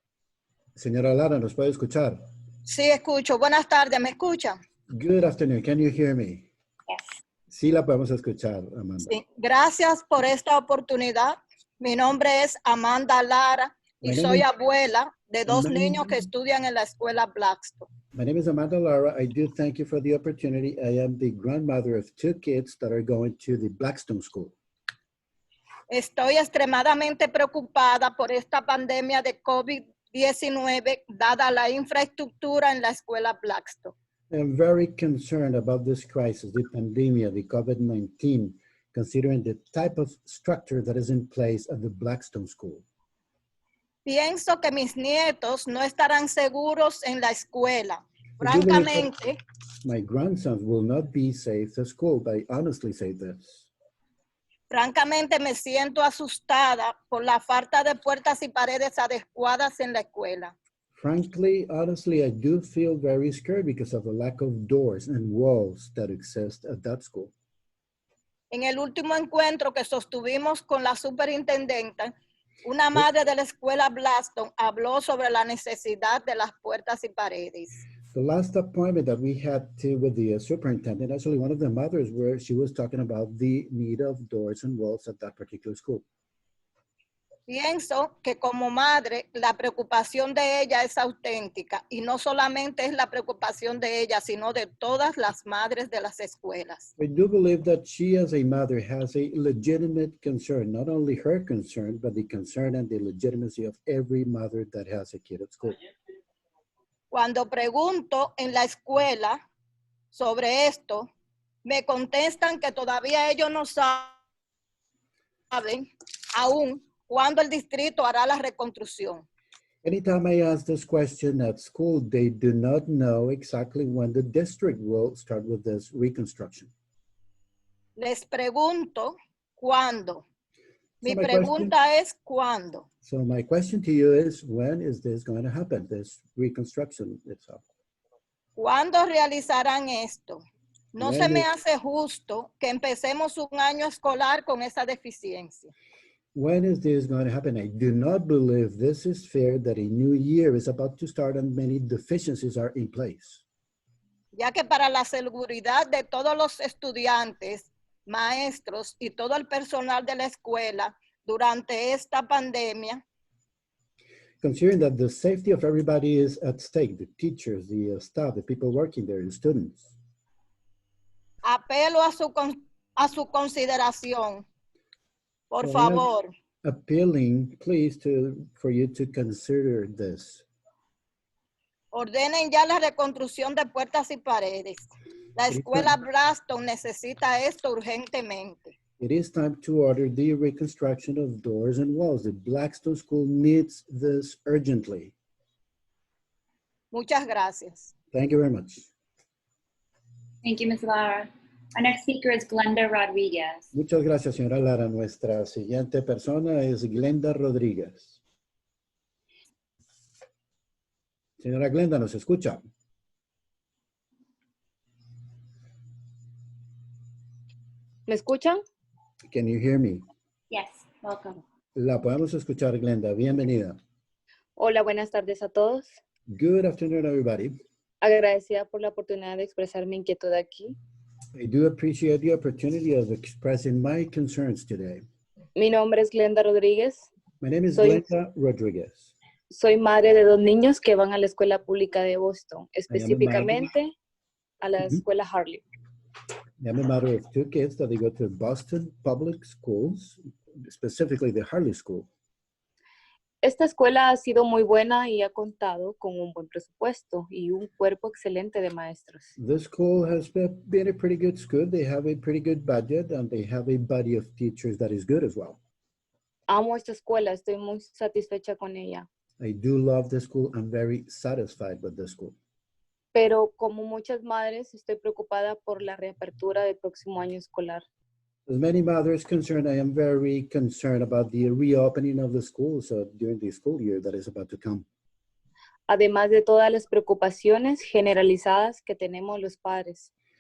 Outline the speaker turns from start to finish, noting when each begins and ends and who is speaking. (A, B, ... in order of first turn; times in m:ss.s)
0:00.8-0:02.2 A
0:02.7-0:04.6 B
0:04.9-0:06.5 A
0:07.5-0:09.1 A
0:09.0-0:17.9 B
0:14.0-0:14.5 A
0:15.5-0:16.1 A
0:18.1-0:24.5 A
0:25.9-0:33.9 B
0:34.3-0:42.8 A
0:44.1-0:49.4 B
0:48.4-0:49.1 A
0:49.8-0:53.7 A
0:54.7-1:00.5 B
1:00.9-1:07.3 A
1:08.5-1:12.1 B
1:12.6-1:17.8 B
1:18.1-1:26.0 A
1:27.5-1:36.9 B
1:37.0-1:45.8 A
1:47.1-1:49.4 B
1:50.1-1:51.1 B
1:51.6-1:54.1 B
1:55.5-1:55.8 B
1:56.4-1:59.2 B
1:59.8-2:06.7 A
2:08.0-2:10.2 B
2:11.0-2:11.7 A
2:11.0-2:12.8 B
2:13.0-2:17.6 A
2:18.6-2:20.4 B
2:20.9-2:25.7 B
2:21.0-2:21.4 A
2:26.3-2:33.4 A
2:34.4-2:43.0 B
2:44.4-2:49.9 A
2:51.4-2:54.4 B
2:55.5-2:56.3 B
2:55.6-2:56.0 A
2:56.6-3:00.4 A
3:01.9-3:08.7 B
3:05.5-3:05.9 A
3:09.0-3:15.1 A
3:16.9-3:17.9 B
3:18.1-3:18.9 A
3:20.4-3:23.7 C
3:23.7-3:28.2 A
3:31.4-3:32.6 A
3:38.1-3:38.6 D
3:39.3-3:40.0 A
3:40.5-3:41.4 C
3:41.8-3:43.8 A
3:44.6-3:45.9 D
3:46.3-3:47.5 A
3:48.0-3:50.8 D
3:51.3-3:55.0 A
3:55.5-3:57.1 D
3:57.4-3:59.1 A
3:57.8-3:58.0 D
3:59.5-4:03.9 D
4:02.9-4:03.7 A
4:04.6-4:05.6 D
4:06.6-4:12.1 A
4:13.4-4:19.3 D
4:19.4-4:25.6 A
4:26.5-4:29.1 D
4:29.4-4:32.4 A
4:33.1-4:37.8 D
4:38.5-4:44.8 A
4:45.9-4:50.1 D